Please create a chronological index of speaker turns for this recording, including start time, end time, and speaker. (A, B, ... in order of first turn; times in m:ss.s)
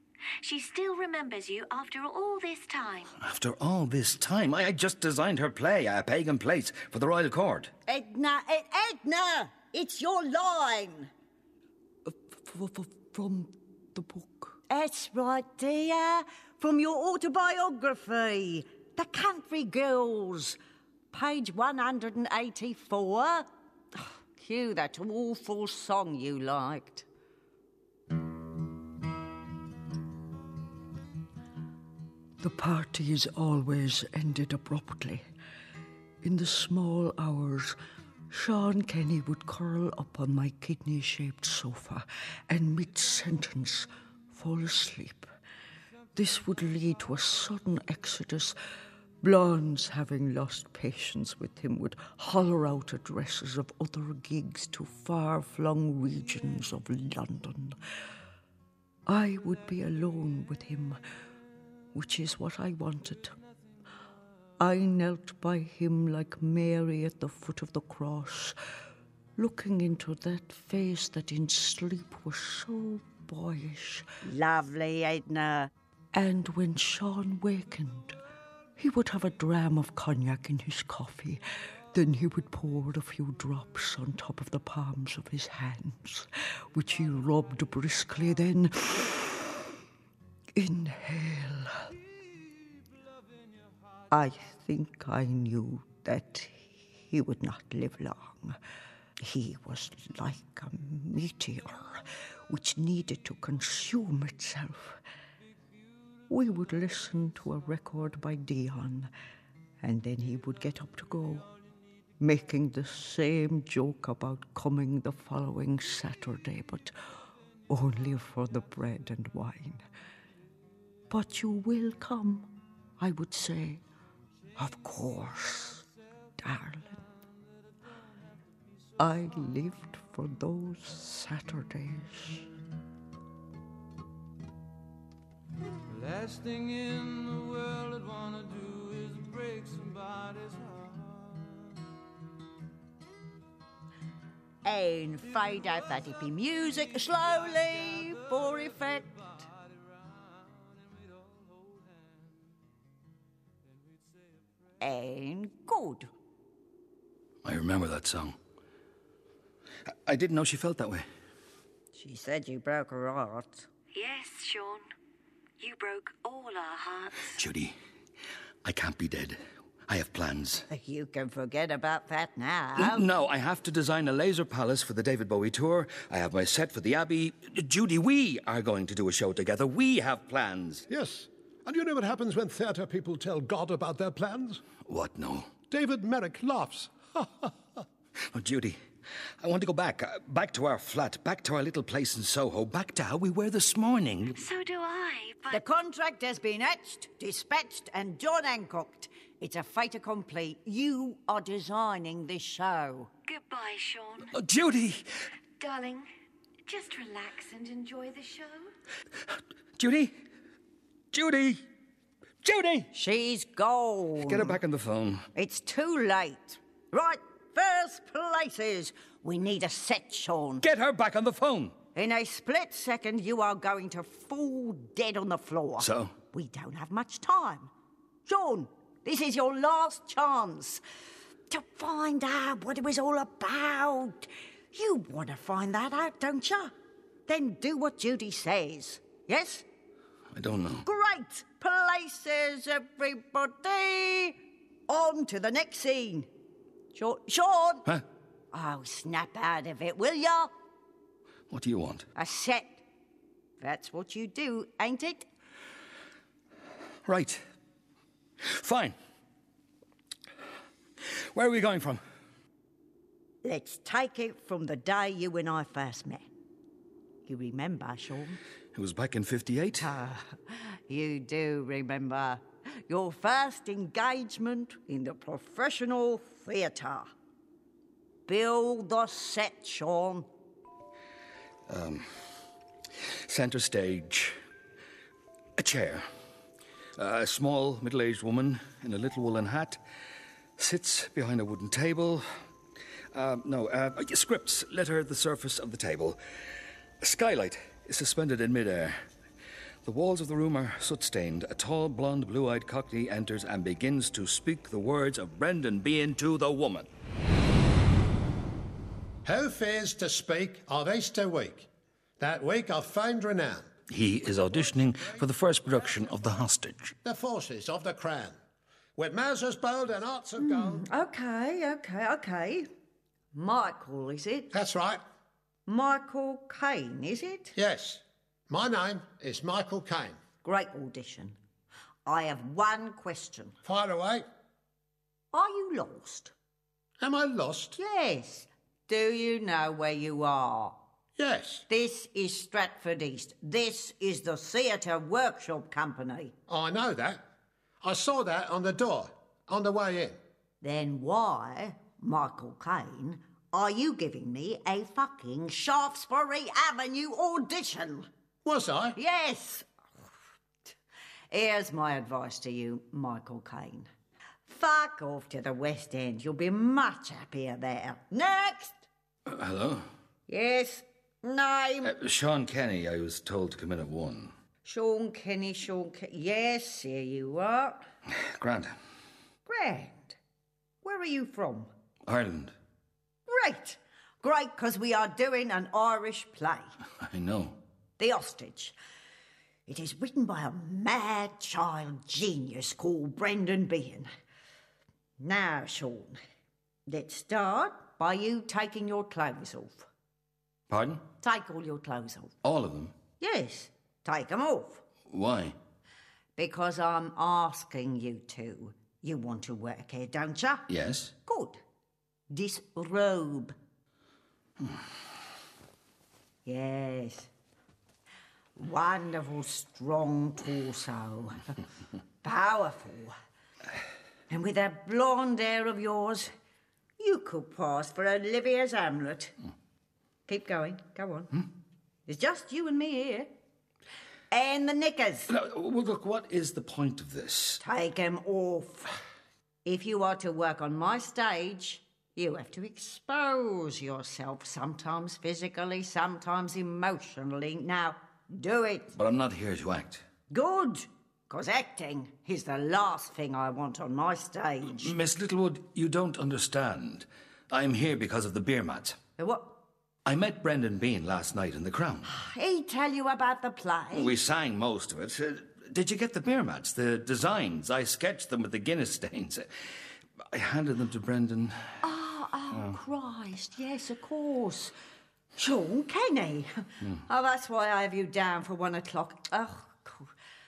0:00.4-0:03.1 A
0:03.2-0:07.7 B
0:07.9-0:11.1 C
0:12.5-0:14.5 D
0:12.5-0:13.5 C
0:14.7-0:20.6 C
0:21.1-0:27.1 C
0:32.4-0:35.2 D
0:36.2-0:37.8 D
0:38.3-0:45.3 D
0:38.4-0:41.2 C
0:43.2-0:43.6 C
0:44.4-0:45.1 C
0:46.2-0:48.6 D
0:47.7-0:48.3 C
0:49.2-0:57.8 D
0:53.4-0:53.9 C
0:59.1-1:01.0 D
1:01.9-1:03.3 D
1:04.6-1:08.6 D
1:09.4-1:14.2 D
1:14.2-1:15.7 C
1:16.1-1:18.2 D
1:18.8-1:21.4 D
1:21.9-1:29.3 D
1:30.6-1:31.8 D
1:34.1-1:36.6 C
1:34.3-1:35.9 D
1:37.1-1:38.5 C
1:37.2-1:38.3 D
1:39.2-1:44.6 C
1:39.4-1:41.8 D
1:42.5-1:44.9 D
1:46.3-1:49.0 C
1:46.3-1:49.1 D
1:49.8-1:51.2 C
1:50.1-1:51.4 D
1:52.2-1:56.9 D
1:52.5-1:53.3 C
1:57.7-1:59.8 D
1:58.3-1:58.9 C
2:01.1-2:02.5 D
2:03.0-2:03.8 D
2:04.6-2:05.8 D
2:06.4-2:07.0 D
2:09.0-2:12.4 D
2:16.2-2:20.3 E
2:24.6-2:29.3 C
2:34.8-2:36.1 C
2:37.4-2:38.4 B
2:40.1-2:41.1 B
2:42.0-2:43.7 C
2:43.9-2:44.8 A
2:45.6-2:47.3 A
2:47.3-2:47.8 B
2:48.6-2:50.7 B
2:50.7-2:53.0 C
2:52.8-3:00.9 B
3:00.9-3:04.6 F
3:04.9-3:05.5 B
3:05.7-3:07.5 F
3:08.3-3:08.8 B
3:09.4-3:14.4 B
3:14.4-3:15.6 A
3:15.5-3:23.1 C
3:23.3-3:24.3 A
3:24.3-3:25.0 B
3:25.6-3:26.1 A
3:26.7-3:28.7 A
3:29.8-3:30.2 B
3:31.1-3:31.6 B
3:32.4-3:32.9 B
3:32.9-3:34.6 C
3:34.2-3:35.3 B
3:35.4-3:40.6 C
3:40.6-3:41.8 B
3:42.0-3:47.7 C
3:45.8-3:46.1 B
3:48.3-3:50.8 C
3:51.5-3:56.7 C
3:57.3-3:59.7 C
4:00.3-4:00.8 B
4:00.8-4:04.4 C
4:04.9-4:06.3 C
4:06.9-4:07.8 C
4:08.5-4:10.5 C
4:11.5-4:12.1 B
4:12.2-4:12.8 C
4:13.6-4:15.3 C
4:17.1-4:17.4 B
4:18.4-4:19.0 B
4:21.3-4:22.0 B
4:23.4-4:26.3 C
4:27.3-4:28.4 C
4:28.7-4:29.9 B
4:29.8-4:37.1 C
4:38.3-4:40.3 C
4:41.7-4:42.1 B
4:43.0-4:44.4 B
4:45.6-4:46.1 B
4:47.0-4:49.8 B
4:50.6-4:52.3 B
4:53.1-4:56.2 B
4:57.0-4:59.0 B
4:59.8-5:06.9 B
5:09.3-5:11.7 G
5:12.2-5:13.4 G
5:12.4-5:13.6 F
5:13.9-5:17.0 B
5:17.0-5:18.4 G
5:19.0-5:20.8 G
5:19.9-5:20.6 F
5:20.4-5:22.7 C
5:23.3-5:24.5 C
5:24.5-5:25.0 G
5:25.7-5:27.5 C
5:27.6-5:30.2 G
5:30.4-5:31.4 C
5:32.1-5:33.6 C
5:33.6-5:34.2 G
5:35.3-5:36.3 C
5:37.0-5:37.8 G
5:37.8-5:40.8 C
5:41.2-5:41.6 G
5:41.7-5:46.3 C
5:46.5-5:47.2 G
5:47.8-5:50.2 G
5:50.6-5:58.1 C
5:58.4-5:59.0 G
5:59.0-5:59.7 C
6:01.3-6:03.9 C
6:04.5-6:08.9 C
6:09.3-6:09.9 B
6:10.3-6:11.9 C
6:11.8-6:14.3 B
6:14.6-6:17.8 C
6:18.1-6:18.8 B
6:19.5-6:20.2 C
6:20.8-6:21.7 C
6:22.1-6:22.5 B
6:23.3-6:26.7 C
6:27.0-6:27.6 B
6:28.0-6:28.8 C
6:29.7-6:34.1 C
6:35.2-6:36.2 C
6:36.9-6:39.9 C
6:40.7-6:41.0 B
6:41.2-6:42.3 C
6:42.4-6:43.0 B
6:43.2-6:44.8 C
6:45.1-6:45.6 B
6:46.4-6:50.7 C
6:50.7-6:51.1 B
6:51.3-6:51.6 C
6:52.3-6:53.6 C
6:56.4-6:57.3 C
6:58.6-7:01.6 C
7:02.2-7:03.2 C
7:04.3-7:06.3 C
7:07.0-7:09.3 C
7:10.3-7:11.4 C
7:12.1-7:13.3 C
7:14.3-7:15.3 C
7:15.3-7:17.6 B
7:17.6-7:18.9 C
7:19.6-7:28.9 C
7:28.9-7:30.0 B
7:30.3-7:34.9 C
7:34.7-7:39.0 B
7:39.2-7:39.5 C
7:40.0-7:42.1 B
7:42.1-7:44.1 C
7:43.9-7:49.5 B
7:50.2-7:51.8 B
7:51.8-7:54.7 C
7:55.4-8:00.1 C